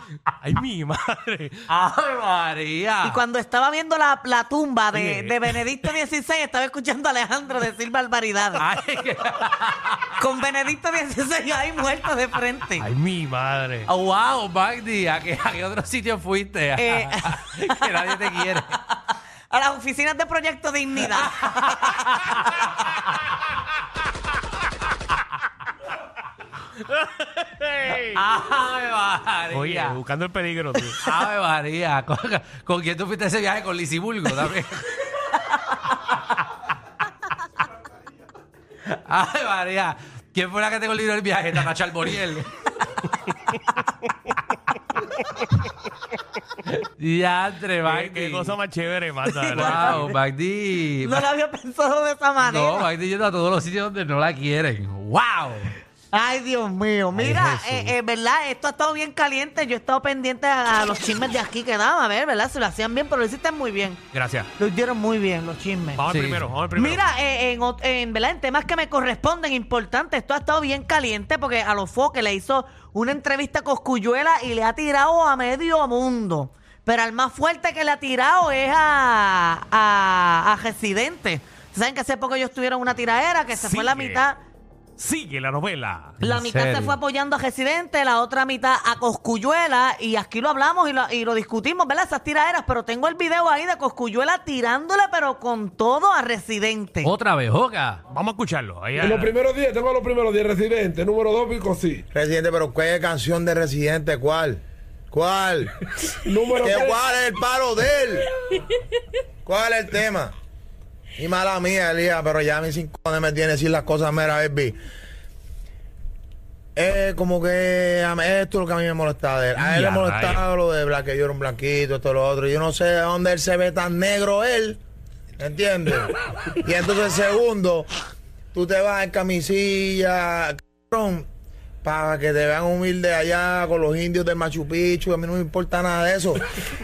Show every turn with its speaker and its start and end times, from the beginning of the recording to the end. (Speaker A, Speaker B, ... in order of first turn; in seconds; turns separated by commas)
Speaker A: 0.2-1.6, Speaker B: 1.7-3.2, Speaker C: 3.0-8.6, Speaker A: 4.9-5.6, Speaker B: 8.6-10.0, Speaker C: 10.2-12.9, Speaker A: 12.8-13.9, Speaker B: 13.9-18.7, Speaker C: 16.8-18.8, Speaker C: 19.5-22.1, Speaker B: 21.4-21.9, Speaker A: 26.9-28.2, Speaker B: 28.1-30.0, Speaker A: 29.5-31.1, Speaker B: 30.9-35.0, Speaker B: 38.8-42.5, Speaker B: 46.6-48.5, Speaker A: 47.8-50.1, Speaker C: 49.4-50.1, Speaker B: 49.5-51.3, Speaker C: 51.0-52.9, Speaker B: 52.4-55.7, Speaker C: 56.1-64.0, Speaker B: 57.1-57.9, Speaker A: 64.1-64.5, Speaker C: 64.6-66.0, Speaker A: 65.9-67.0, Speaker B: 66.1-66.4, Speaker C: 66.7-84.4, Speaker A: 83.5-84.2, Speaker A: 85.0-86.2, Speaker B: 86.2-87.0, Speaker C: 86.2-97.1, Speaker B: 97.0-98.0, Speaker A: 98.1-99.3, Speaker D: 99.0-102.0, Speaker E: 102.1-105.7, Speaker D: 106.2-107.0, Speaker E: 106.6-108.3, Speaker E: 109.4-110.3, Speaker E: 111.2-114.8, Speaker E: 116.8-124.8, Speaker A: 119.6-120.4, Speaker E: 125.4-127.9, Speaker E: 128.5-131.3, Speaker E: 131.8-136.4